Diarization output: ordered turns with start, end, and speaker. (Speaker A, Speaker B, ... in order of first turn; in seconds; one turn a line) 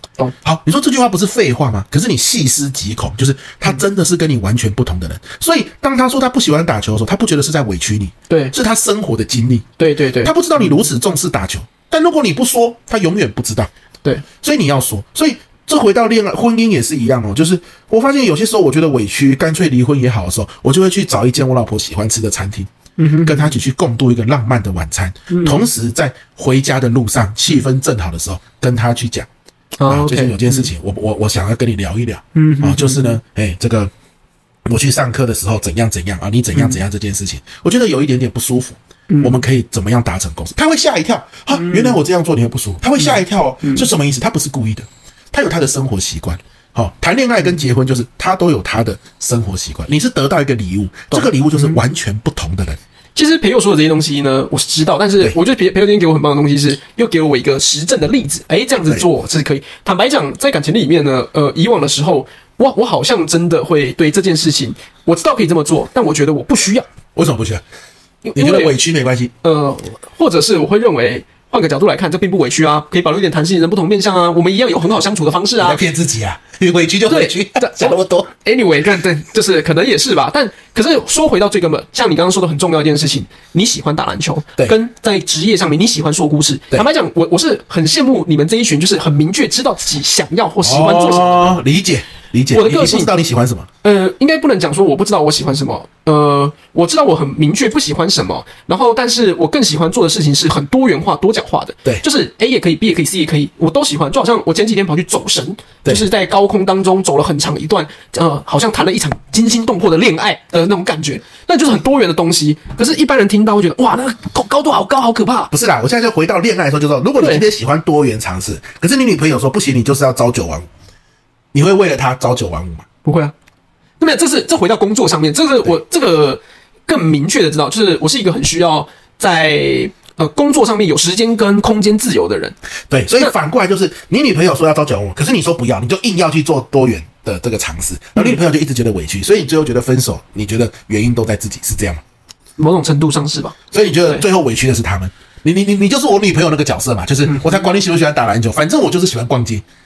Speaker A: 0.4-9.7
Speaker B: 8.3-8.6
Speaker B: 9.8-10.8
Speaker A: 10.2-13.7
Speaker A: 14.4-22.7
Speaker B: 23.0-23.5
Speaker A: 23.2-29.3
Speaker B: 25.3-25.6
Speaker B: 29.8-30.7
Speaker A: 29.9-33.9
Speaker B: 32.4-33.2
Speaker A: 34.7-52.8
Speaker B: 39.1-39.4
Speaker B: 41.5-42.0
Speaker B: 43.0-43.9
Speaker B: 51.1-51.8
Speaker B: 53.1-66.9
Speaker A: 67.2-67.6
Speaker B: 68.2-68.8
Speaker A: 68.3-69.3
Speaker B: 69.4-75.8
Speaker A: 75.6-78.3
Speaker B: 77.1-91.6
Speaker A: 90.6-93.7
Speaker B: 92.5-93.1
Speaker B: 93.8-115.5
Speaker A: 115.5-120.7
Speaker B: 117.2-117.5
Speaker A: 121.5-122.9
Speaker B: 123.0-123.3
Speaker B: 124.0-132.6
Speaker A: 132.9-142.0
Speaker B: 142.6-143.6
Speaker A: 143.7-149.6
Speaker B: 147.3-147.6